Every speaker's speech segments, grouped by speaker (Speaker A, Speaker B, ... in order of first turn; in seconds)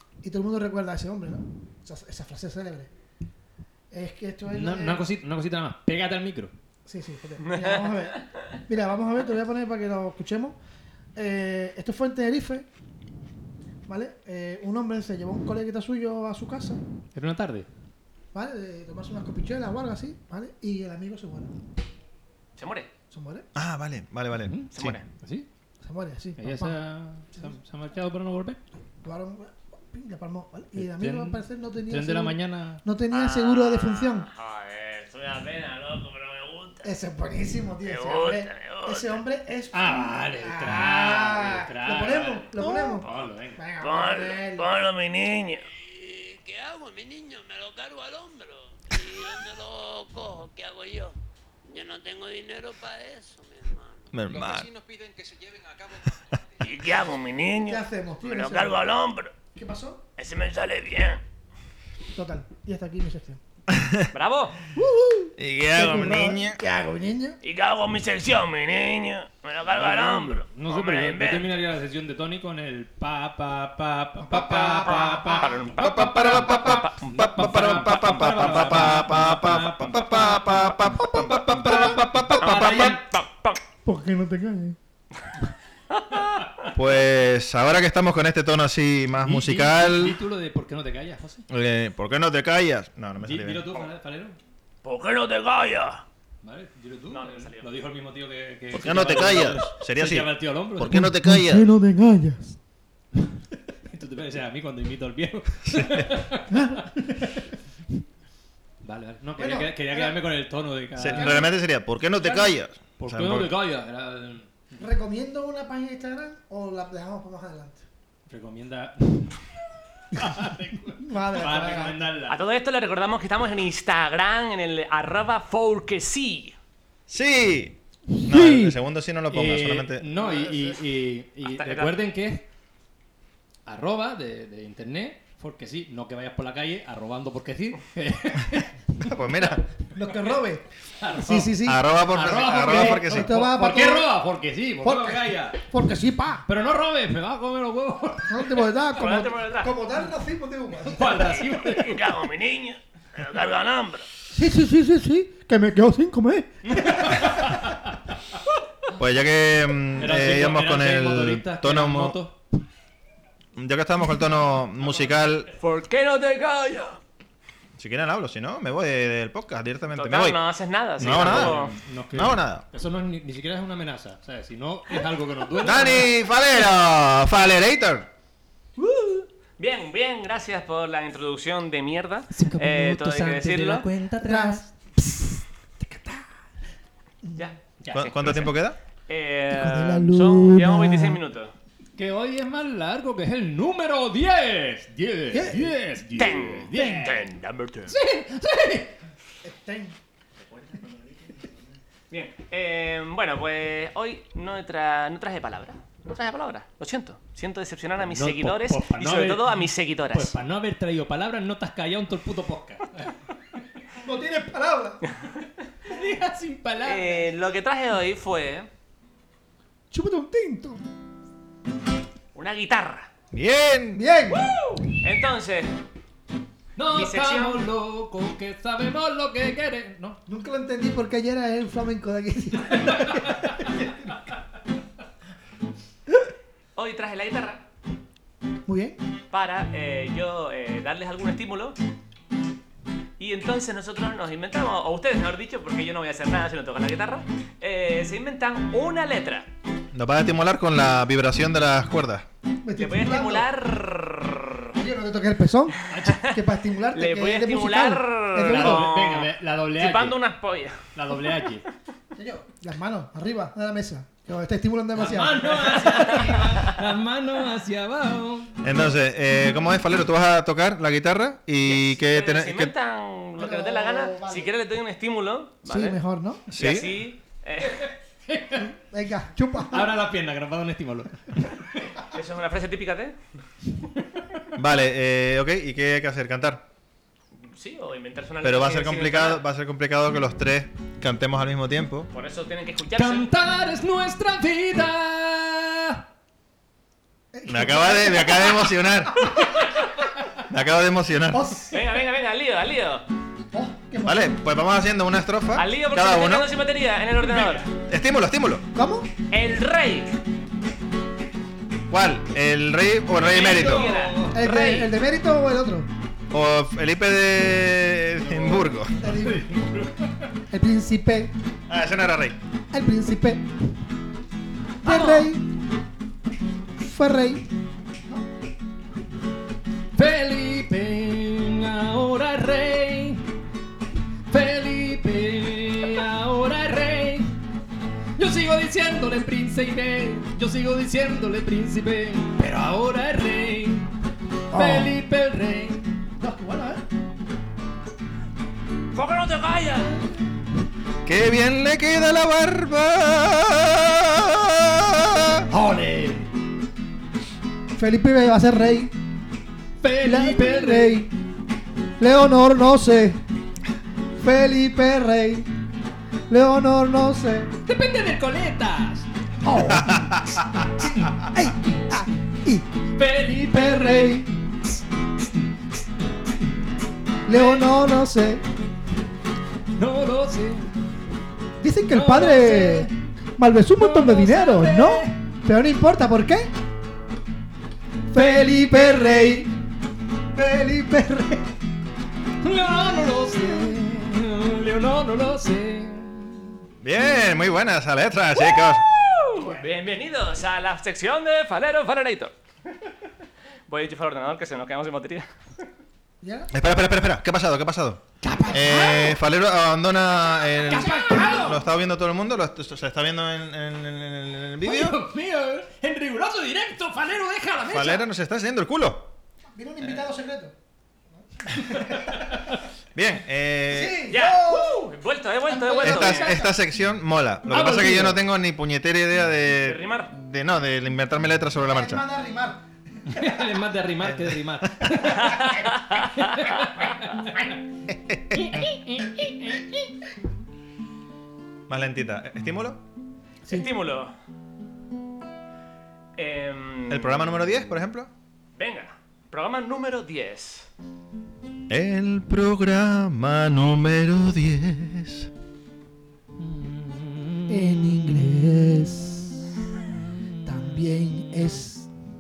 Speaker A: 0.2-2.9, 3.9-5.1, 6.9-10.6, 11.2-12.7, 13.9-16.8, 18.3-21.5, 23.1-23.5, 25.8-26.8, 29.0-34.3, 36.8-44.7, 57.7-58.8, 59.5-60.0, 62.1-63.4, 64.7-67.4, 74.2-75.5, 81.0-81.8, 83.8-84.8, 100.9-102.6, 106.5-107.5, 109.4-110.2, 111.1-111.5, 114.8-117.8, 121.0-122.0, 139.9-144.2, 144.8-146.5, 148.3-151.4, 154.3-157.8, 184.2-185.3, 185.9-186.2, 189.5-191.2, 195.3-195.7, 199.4-200.0, 214.0-215.0, 219.9-220.8, 223.9-224.6, 230.3-234.1, 238.7-239.0, 252.6-253.5, 254.8-258.9, 262.1-266.6, 273.4-274.5, 275.6-276.4, 278.6-279.9, 297.3-298.7, 301.3-301.8, 303.5-304.4, 308.8-309.1, 314.3-315.9, 319.0-319.6, 320.5-321.3, 322.7-323.5, 324.8-325.5, 326.8-327.5, 344.5-345.0, 346.2-346.9, 357.8-358.9, 360.0-361.1, 362.0-363.2, 364.2-365.5, 366.3-367.5, 369.4-372.7, 373.2-374.3, 377.3-378.4, 381.6-386.5, 388.1-389.5, 390.3-391.5, 392.8-393.8, 399.4-399.7, 406.2-406.5, 410.7-411.6, 419.6-420.5, 421.4-422.2, 423.7-424.9, 425.5-426.5, 431.6-433.4, 457.5-459.3, 460.4-461.9
Speaker B: 4.5-6.5, 17.1-17.7, 24.5-25.5, 26.4-28.6, 30.8-32.8, 39.7-43.6, 69.7-83.0, 89.2-91.5, 93.2-94.4, 96.4-101.0, 103.9-106.6, 108.8-111.4, 113.0-114.8, 118.3-119.5, 120.1-122.4, 128.2-128.8, 129.3-132.5, 133.7-139.1, 141.0-141.5, 142.1-145.6, 146.5-148.6, 150.9-152.1, 156.7-158.0, 160.0-162.4, 171.0-176.1, 182.3-184.7, 187.8-188.4, 192.0-197.3, 197.9-199.0, 208.0-213.1, 215.9-217.3, 226.8-230.2, 233.0-233.4, 255.9-256.2, 258.5-260.2, 260.9-261.6, 265.0-268.5, 277.6-278.7, 279.7-281.9, 292.9-296.1, 313.5-314.5, 318.2-320.3, 329.9-333.2, 334.3-337.4, 338.2-343.9, 344.5-345.9, 355.5-356.3, 359.8-361.0, 367.7-369.9, 373.0-374.3, 377.3-377.8, 379.8-380.7, 381.9-382.9, 383.7-385.2, 388.2-389.1, 392.4-396.5, 408.2-409.2, 410.7-411.6, 414.6-418.1, 427.5-428.2, 433.1-437.4, 438.4-439.6, 456.4-457.5
Speaker C: 7.4-8.2, 22.6-22.9, 24.7-25.1, 33.1-36.9, 37.8-39.2, 42.6-43.3, 43.8-45.7, 56.6-59.3, 60.2-61.2, 64.1-64.7, 67.4-71.5, 74.8-77.0, 82.4-83.6, 85.9-86.7, 94.8-96.0, 97.1-97.7, 122.3-126.6, 130.4-130.7, 131.4-131.9, 148.9-149.8, 151.4-154.1, 165.6-167.0, 169.9-171.8, 178.8-183.9, 187.4-188.5, 189.1-191.5, 196.2-197.9, 202.1-210.4, 216.8-218.7, 222.3-223.1, 224.9-225.7, 226.9-227.7, 236.8-237.6, 239.3-241.8, 243.2-249.5, 252.8-254.7, 256.9-260.8, 271.6-276.0, 276.6-277.9, 282.1-283.2, 287.4-289.4, 292.1-293.3, 301.7-303.1, 305.6-307.7, 309.3-310.2, 313.2-314.9, 324.8-325.3, 348.9-350.0, 399.1-402.3, 403.7-405.3, 424.1-426.4, 429.6-430.1, 435.1-436.7, 443.5-444.1, 446.2-447.4, 448.6-450.7
Speaker D: 23.6-25.0, 54.1-54.7, 63.7-64.1, 65.4-66.6, 75.8-83.0, 86.7-90.2, 91.5-93.7, 98.7-101.7, 105.7-106.1, 111.0-113.5, 127.1-130.1, 139.0-139.6, 141.3-143.4, 159.0-162.2, 163.6-165.5, 167.8-170.4, 171.0-172.6, 175.6-178.1, 187.9-188.8, 223.3-224.0, 249.9-252.3, 268.6-272.7, 276.5-277.0, 284.6-286.6, 288.4-292.1, 297.5-299.3, 300.5-301.5, 304.1-306.5, 307.9-308.7, 311.9-313.9, 316.3-319.0, 321.7-322.4, 351.1-355.5, 369.6-370.7, 396.8-398.9, 406.5-415.0, 417.7-419.1, 422.9-424.0, 425.8-432.0, 434.0-435.0, 437.9-438.7, 441.7-442.8, 446.9-448.1, 451.7-455.3
Speaker E: 45.8-51.1, 51.7-54.1
Speaker F: 54.3-56.6